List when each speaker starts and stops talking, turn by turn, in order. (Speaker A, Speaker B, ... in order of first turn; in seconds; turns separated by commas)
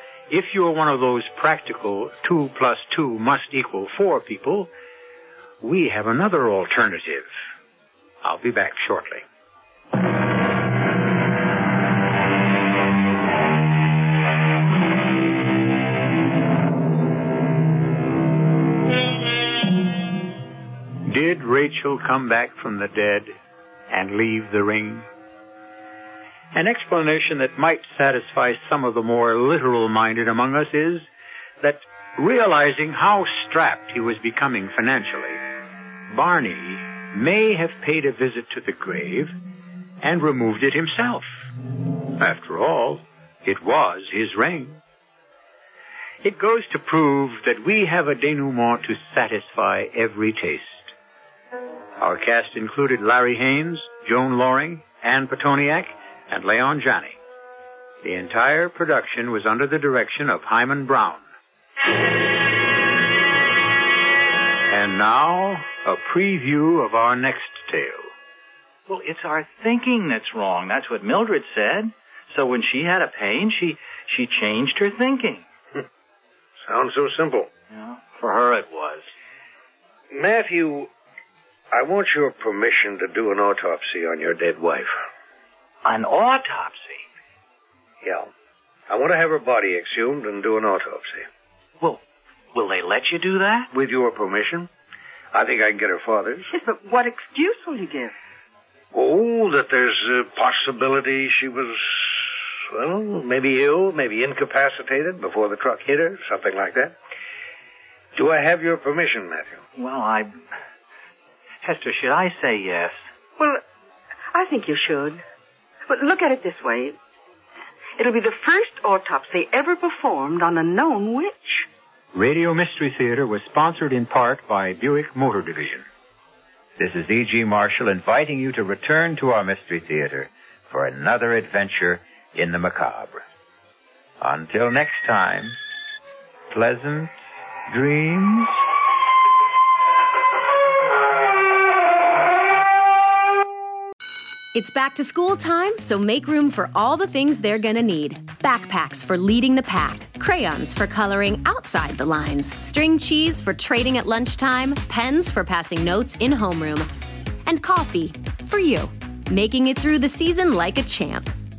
Speaker A: 0.3-4.7, Speaker A: 5.6-7.3, Speaker A: 8.2-9.2, Speaker A: 21.1-23.4, Speaker A: 23.9-25.1, Speaker A: 26.5-31.1, Speaker A: 31.6-35.4, Speaker A: 36.1-39.4, Speaker A: 40.0-41.5, Speaker A: 42.1-44.8, Speaker A: 46.2-50.9, Speaker A: 52.0-57.2, Speaker A: 58.0-61.2, Speaker A: 64.7-68.1, Speaker B: 68.9-75.5, Speaker C: 76.7-77.5, Speaker B: 77.7-79.1, Speaker C: 80.1-80.9, Speaker C: 81.7-85.0, Speaker B: 85.8-87.0, Speaker C: 88.0-88.3, Speaker C: 88.9-91.3, Speaker B: 92.5-93.7, Speaker C: 93.7-94.7, Speaker C: 95.3-96.5, Speaker D: 96.5-98.2, Speaker C: 98.9-107.0, Speaker C: 108.2-109.6, Speaker B: 109.8-110.3, Speaker B: 111.6-113.0, Speaker D: 114.3-115.2, Speaker D: 115.9-117.0, Speaker D: 118.0-121.7, Speaker A: 122.1-125.9, Speaker A: 126.8-133.2, Speaker A: 134.2-135.6, Speaker A: 136.5-137.1, Speaker A: 137.7-138.6, Speaker E: 144.5-156.9, Speaker E: 157.4-161.3